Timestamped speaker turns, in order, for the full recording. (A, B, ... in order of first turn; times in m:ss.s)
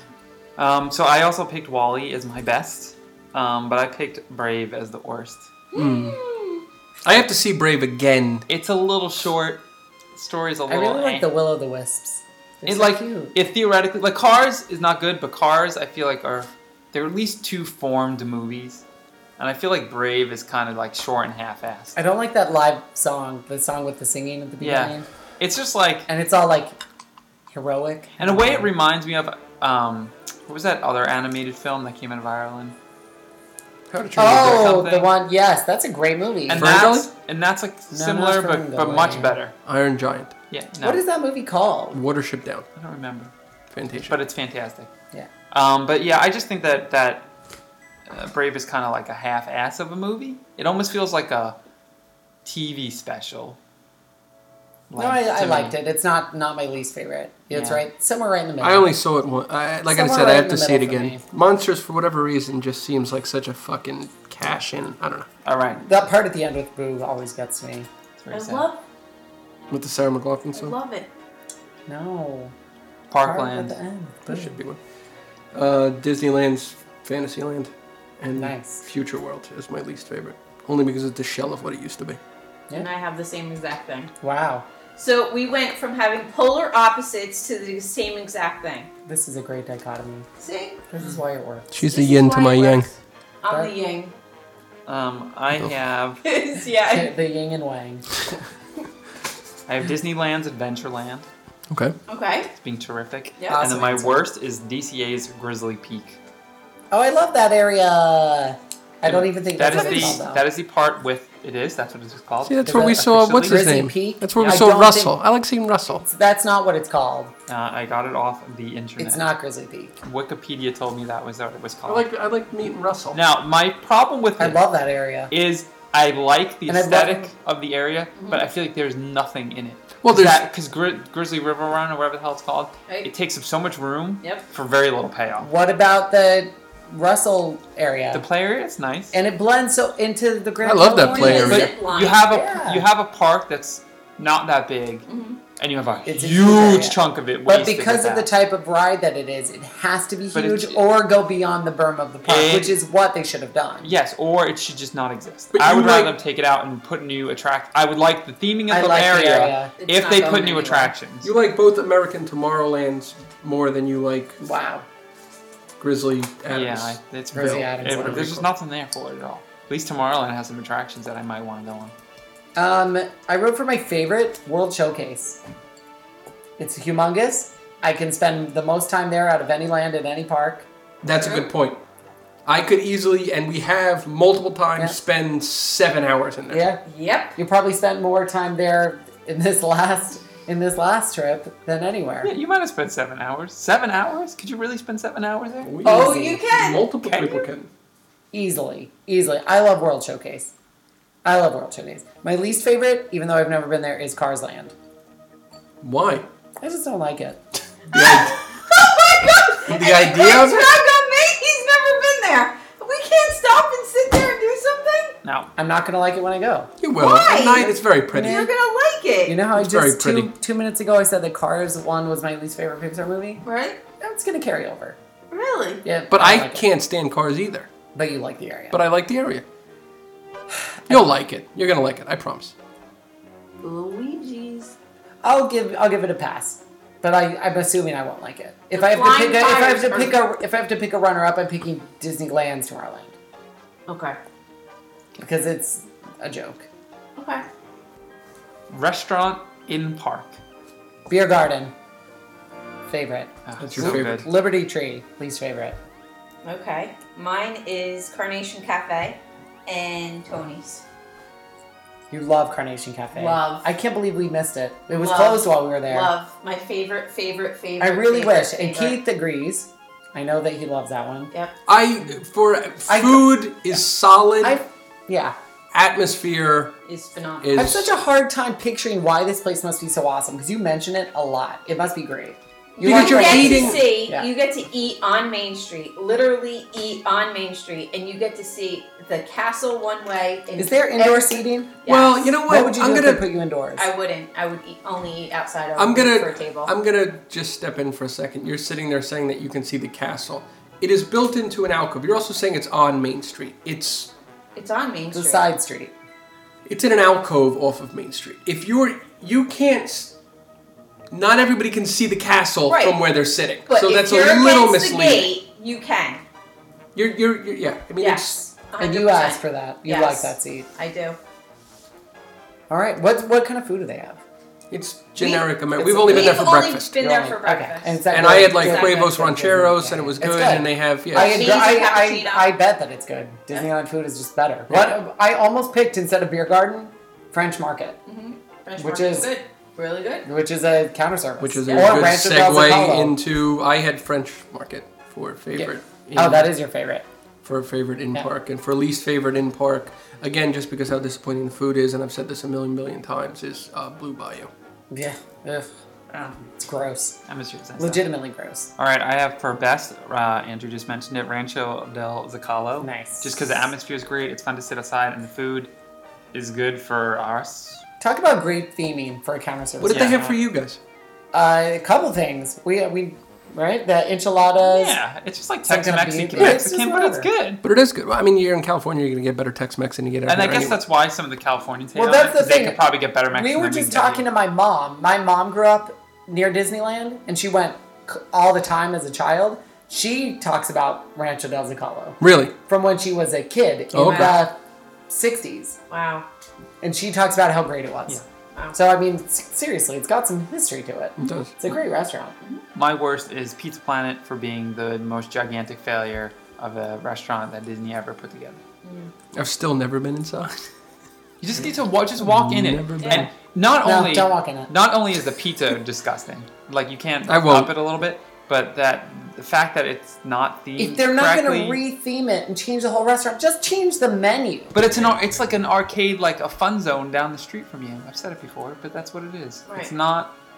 0:00.6-0:05.5 A
0:05.7-0:06.6 B
0:05.8-0:06.2 C
0:07.0-0:08.4 C
0:08.5-0:11.2 A
0:10.7-0:13.3 D
0:12.7-0:18.8 A
0:19.4-0:22.0 A
0:22.0-0:25.1 D
0:24.6-0:26.1 A
0:26.1-0:26.8 D
0:27.5-0:28.7 D
0:28.2-0:32.8 A
0:33.9-0:34.8 C
0:34.2-0:36.7 D
0:34.2-0:35.1 A
0:36.5-0:39.5 A
0:36.6-0:37.1 C
0:37.9-0:39.4 D
0:39.6-0:40.3 C
0:40.5-0:41.0 A
0:40.8-0:42.0 D
0:41.9-0:42.6 C
0:42.8-0:43.3 A
0:43.7-0:44.2 C
0:44.0-0:44.9 A
0:45.5-0:47.3 A
0:48.1-0:51.6 A
0:52.4-0:53.6 A
0:54.9-0:55.8 A
0:55.0-0:58.9 D
0:57.5-0:57.8 A
0:58.6-1:05.3 C
0:59.9-1:01.2 D
1:05.4-1:05.8 A
1:05.8-1:07.9 D
1:08.2-1:08.7 A
1:08.3-1:08.8 B
1:09.7-1:10.8 C
1:10.5-1:11.1 B
1:11.9-1:12.5 D
1:13.1-1:13.8 A
1:13.2-1:14.5 D
1:14.3-1:14.8 C
1:15.5-1:22.2 C
1:18.4-1:18.8 D
1:22.7-1:24.1 B
1:24.2-1:24.6 D
1:25.0-1:28.9 B
1:29.1-1:30.3 D
1:30.4-1:30.8 B
1:30.9-1:31.7 D
1:31.7-1:32.9 C
1:31.8-1:34.1 B
1:34.9-1:36.2 A
1:36.2-1:37.1 B
1:36.9-1:38.1 D
1:39.7-1:41.3 A
1:41.7-1:42.0 C
1:42.1-1:42.5 B
1:42.6-1:46.2 A
1:43.4-1:43.6 B
1:43.5-1:44.2 D
1:46.9-1:50.4 D
1:49.0-1:53.6 A
1:49.7-1:50.0 B
1:52.4-1:56.0 C
1:52.7-1:55.2 D
1:54.4-1:54.6 A
1:56.0-1:57.3 D
1:57.5-1:59.3 A
1:59.0-1:59.9 D
2:00.0-2:02.1 A
2:01.9-2:03.2 C
2:03.1-2:04.6 A
2:04.4-2:05.3 D
2:05.3-2:15.5 A
2:06.7-2:07.3 D
2:08.2-2:08.4 B
2:10.0-2:10.4 C
2:15.4-2:18.2 D
2:18.1-2:19.2 A
2:19.1-2:21.7 D
2:20.6-2:21.7 C
2:21.1-2:22.4 B
2:21.4-2:28.3 A
2:22.3-2:22.9 D
2:25.1-2:25.4 B
2:26.1-2:33.9 D
2:30.3-2:30.8 A
2:32.2-2:32.8 A
2:33.8-2:41.3 A
2:35.5-2:36.1 C
2:38.7-2:39.7 D
2:39.8-2:40.9 B
2:41.2-2:44.4 C
2:44.4-2:44.8 D
2:45.8-2:48.4 C
2:46.5-2:51.9 A
2:47.3-2:48.4 D
2:52.6-2:55.4 D
2:56.6-3:00.7 D
3:01.0-3:01.8 C
3:02.5-3:06.6 C
3:06.5-3:06.8 D
3:06.8-3:07.4 B
3:07.4-3:12.3 D
3:12.2-3:15.8 A
3:15.6-3:17.7 C
3:15.8-3:16.9 B
3:17.0-3:17.4 A
3:18.3-3:20.5 D
3:21.2-3:24.7 D
3:25.8-3:26.3 C
3:26.6-3:27.4 D
3:27.9-3:28.4 C
3:27.9-3:35.2 B
3:29.7-3:30.8 C
3:35.2-3:35.5 A
3:35.6-3:36.7 D
3:36.8-3:38.5 C
3:37.0-3:39.4 B
3:37.6-3:38.5 D
3:39.3-3:43.4 D
3:39.6-3:40.3 C
3:43.4-3:43.8 B
3:44.0-3:45.0 D
3:45.3-3:45.8 B
3:45.8-3:46.6 D
3:46.1-3:47.7 C
3:48.0-3:48.8 D
3:48.7-3:49.4 C
3:50.6-3:51.2 D
3:50.9-3:52.5 C
3:53.6-3:54.7 B
3:55.2-4:03.2 D
3:58.7-4:00.2 B
4:03.9-4:04.2 B
4:05.2-4:06.7 D
4:07.2-4:07.4 B
4:08.7-4:10.4 A
4:11.1-4:11.7 D
4:12.9-4:15.8 D
4:13.5-4:14.3 A
4:13.6-4:14.2 C
4:16.4-4:20.8 B
4:22.1-4:26.1 D
4:23.1-4:23.7 B
4:24.9-4:29.0 B
4:27.8-4:31.3 D
4:31.7-4:34.6 C
4:32.9-4:33.4 D
4:34.4-4:35.4 D
4:35.7-4:36.8 C
4:36.8-4:37.7 B
4:37.4-4:37.9 C
4:37.6-4:44.3 D
4:42.8-4:52.3 B
4:42.8-4:43.8 C
4:50.6-4:51.8 D
4:51.9-4:53.3 C
4:52.4-4:53.9 D
4:53.8-4:56.7 B
4:55.8-5:04.1 C
5:04.6-5:05.5 B
5:05.1-5:05.9 D
5:06.6-5:10.2 C
5:11.1-5:15.3 C
5:12.7-5:13.0 B
5:13.7-5:16.2 B
5:17.0-5:18.4 C
5:18.0-5:21.2 B
5:18.8-5:20.7 D
5:22.7-5:24.2 D
5:24.7-5:26.9 C
5:25.2-5:25.5 B
5:25.8-5:38.0 D
5:26.0-5:29.0 B
5:28.1-5:31.5 C
5:31.1-5:32.5 B
5:34.7-5:35.0 C
5:38.1-5:40.3 B
5:38.8-5:39.3 D
5:40.2-5:43.2 D
5:41.4-5:46.5 C
5:41.7-5:42.0 B
5:45.6-5:47.0 D
5:47.4-5:54.5 C
5:54.9-5:55.8 D
5:56.1-5:56.5 A
5:56.6-5:57.2 D
5:57.3-5:58.0 A
5:57.8-5:58.7 D
5:58.8-6:05.7 A
6:02.8-6:03.6 D
6:06.3-6:07.8 A
6:08.0-6:10.3 D
6:09.8-6:10.8 C
6:09.9-6:10.4 A
6:11.3-6:15.0 D
6:14.6-6:17.6 A
6:15.7-6:17.3 D
6:16.4-6:16.6 C
6:17.6-6:20.8 C
6:20.3-6:24.3 A
6:22.0-6:34.6 D
6:32.2-6:32.5 C
6:33.9-6:34.4 C
6:34.0-6:34.4 B
6:35.1-6:35.8 D
6:35.9-6:36.3 B
6:36.8-6:38.2 D
6:38.7-6:42.4 D
6:41.2-6:41.5 C
6:42.8-6:48.6 A
6:48.8-6:49.1 B
6:49.4-6:50.6 C
6:51.4-7:01.8 A
6:52.2-6:53.3 C
6:53.0-6:53.3 B
6:53.8-6:54.7 D
6:57.3-6:57.7 C
7:00.8-7:05.2 D
7:04.7-7:10.3 A
7:09.7-7:09.9 B